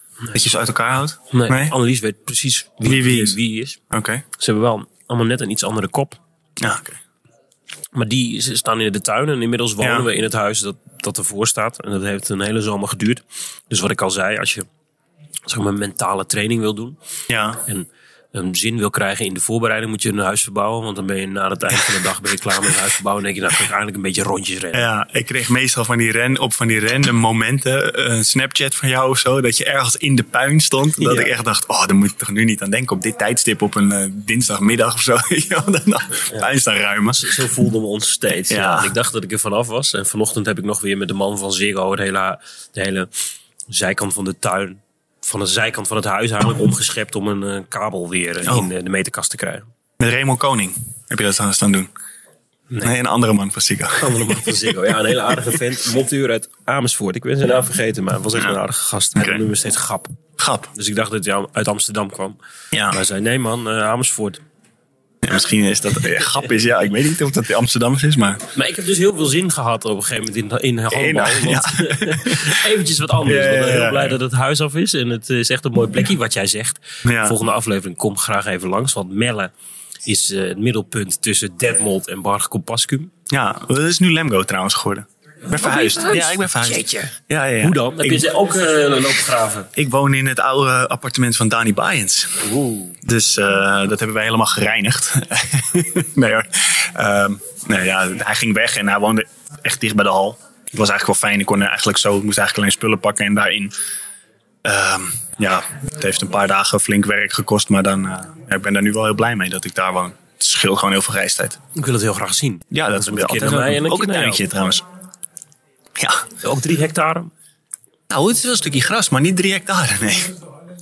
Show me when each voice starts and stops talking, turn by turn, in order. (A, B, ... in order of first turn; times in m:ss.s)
0:00.3-0:01.8 A
0:01.3-0:03.8 B
0:02.8-0:03.4 A
0:03.9-0:04.2 A
0:04.4-0:06.2 B
0:06.6-0:07.0 A
0:07.9-0:14.7 B
0:09.8-0:10.1 A
0:15.5-0:17.0 B
0:17.3-0:17.6 A
0:17.7-0:24.9 B
0:24.7-0:37.4 A
0:31.0-0:31.3 B
0:37.1-0:43.1 B
0:38.5-0:39.0 A
0:43.7-0:49.7 B
0:50.0-0:51.9 A
0:52.8-0:54.5 A
0:54.0-1:00.2 B
0:59.2-0:59.4 A
1:00.4-1:00.7 A
1:00.7-1:04.4 B
1:02.7-1:03.0 A
1:05.2-1:08.5 A
1:08.5-1:19.5 B
1:10.9-1:12.6 A
1:13.2-1:14.2 A
1:17.0-1:17.4 A
1:20.1-1:23.1 B
1:23.3-1:28.3 A
1:25.5-1:29.7 B
1:29.7-1:32.5 A
1:32.4-1:33.0 B
1:33.0-1:43.7 A
1:44.6-1:51.6 A
1:51.8-1:54.4 B
1:52.7-1:54.8 A
1:56.0-1:56.3 A
1:56.4-1:57.3 B
1:58.1-2:00.4 A